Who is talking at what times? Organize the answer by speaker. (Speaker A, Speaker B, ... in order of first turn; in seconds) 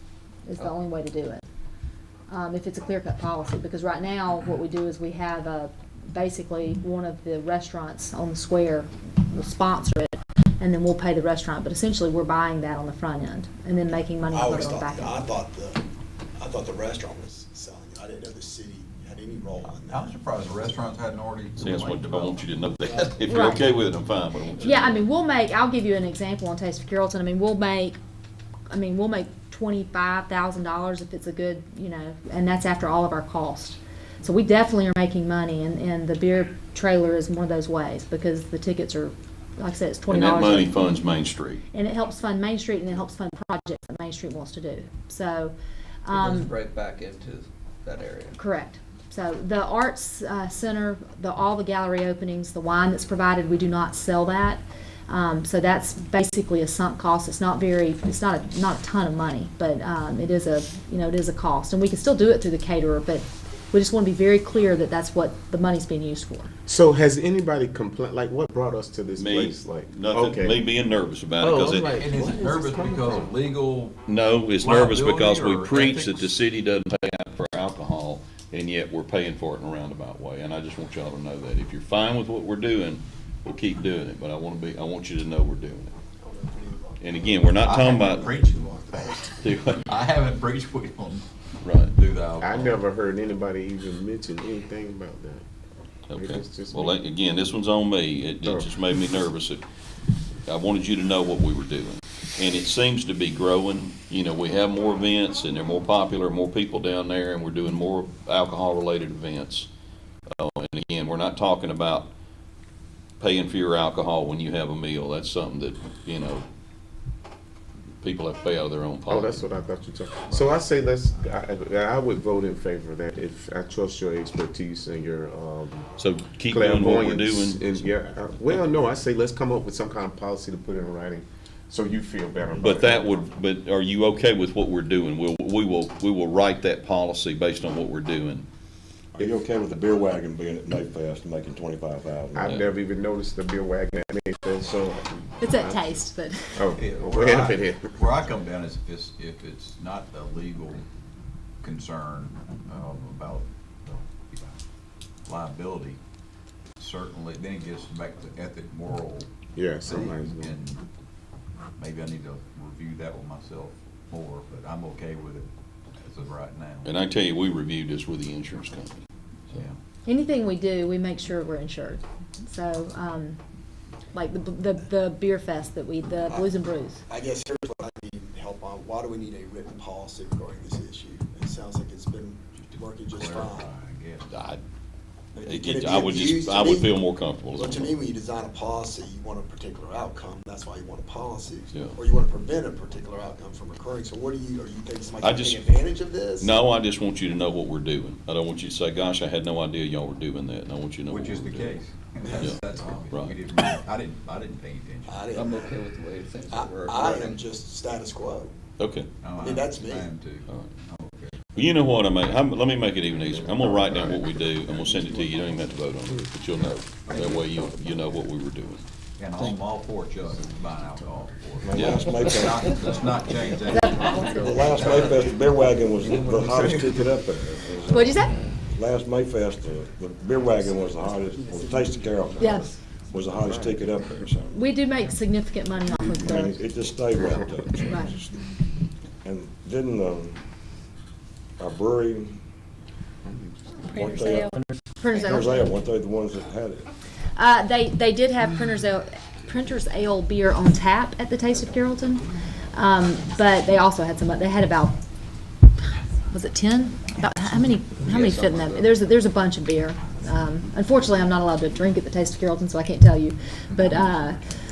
Speaker A: 0.5-1.4, 2.3-15.2, 23.3-23.6, 24.6-28.0, 28.7-40.7, 41.7-46.5, 48.3-66.5, 145.4-146.7, 170.0-173.4, 174.1-177.0, 223.7-224.5, 227.9-228.3, 232.4-232.7, 234.5-236.6, 237.8-238.2, 243.9-245.7, 247.3-254.9, 256.3-264.4
Speaker B: 14.3-15.8, 16.4-20.2, 22.8-23.2, 86.2-87.2, 88.0-89.4, 177.1-183.7, 185.3-187.0, 187.5-196.6, 205.1-205.8, 206.5-208.5, 209.3-210.1
Speaker C: 19.6-23.1, 71.9-74.0, 74.6-76.4, 87.6-91.3, 91.8-92.8, 146.7-150.8, 151.6-154.5, 155.2-156.0, 156.8-159.3, 159.8-160.8, 161.8-167.0, 169.5-169.8, 182.5-184.3, 201.1-205.4, 209.2-211.6, 217.0-217.5, 219.2-225.1
Speaker D: 21.6-25.0, 40.1-41.6, 69.2-72.0, 74.1-85.9, 87.0-88.3, 89.3-89.8, 91.6-91.9, 96.1-99.6, 100.5-109.7, 110.3-112.1, 113.2-116.5, 118.0-119.5, 126.0-127.9, 132.6-138.4, 166.8-169.6, 184.3-184.6, 185.4-188.0, 195.2-195.7, 196.4-201.8, 208.8-209.1, 211.5-218.8, 221.7-222.0
Speaker E: 46.1-48.4, 205.3-207.4, 231.6-232.6, 233.4-234.0, 258.0-258.9
Speaker F: 66.7-70.6, 71.4-73.1, 92.4-95.5, 96.1-97.0, 98.4-98.7, 119.1-125.9, 126.5-133.2, 142.3-146.0, 146.5-147.9, 159.5-160.6, 213.5-214.2, 243.2-243.8
Speaker G: 139.2-142.5, 221.6-222.9, 224.2-234.6, 236.1-238.4, 239.2-240.4, 241.6-242.4, 243.8-244.6, 245.1-246.9